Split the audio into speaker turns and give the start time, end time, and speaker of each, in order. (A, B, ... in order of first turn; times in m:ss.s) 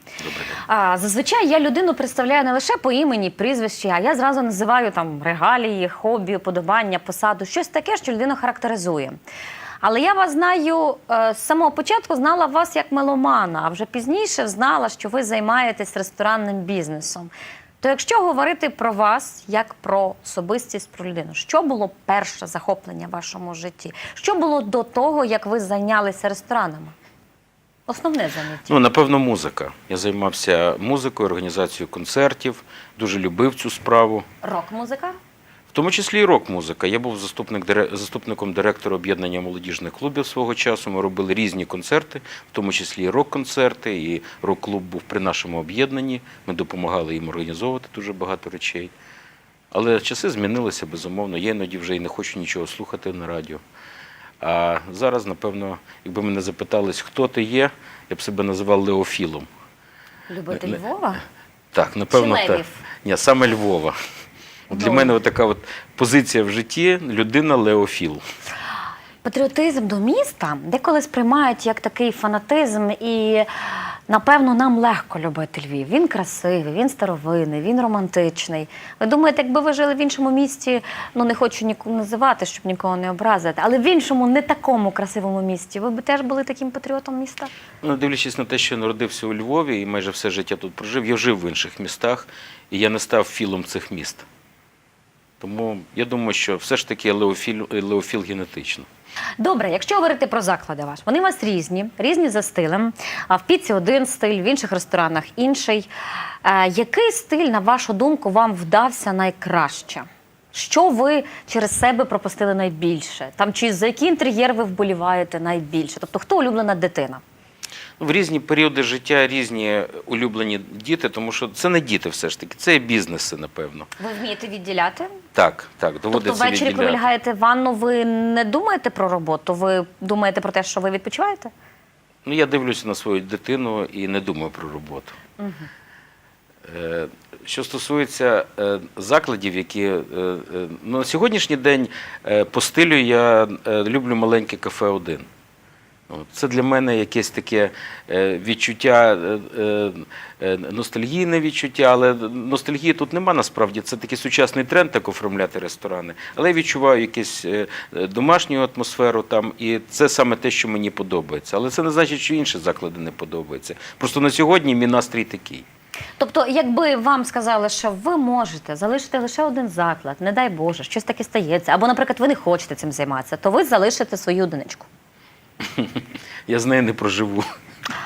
0:00.2-0:00.6 A
0:00.6-0:09.2 B
0:09.8-0:26.9 B
0:27.9-0:28.8 B
0:28.7-0:34.2 A
0:34.4-0:35.2 B
0:35.7-0:48.9 A
0:49.7-0:53.6 A
0:54.4-0:59.5 A
1:00.3-1:01.2 B
1:01.7-1:03.9 A
1:02.1-1:02.8 B
1:04.7-1:08.2 A
1:04.7-1:05.1 B
1:09.2-1:13.5 B
1:14.1-1:27.5 B
1:27.8-1:34.2 A
1:35.4-1:38.9 A
1:39.4-1:45.9 B
1:46.4-1:57.2 B
1:58.0-2:03.9 A
2:04.0-2:05.2 B
2:05.3-2:07.0 A
2:06.1-2:11.5 B
2:12.2-2:15.2 A
2:15.4-2:15.7 B
2:16.6-2:25.2 A
2:26.1-2:45.6 A
2:46.2-2:54.9 B
2:55.6-2:57.5 A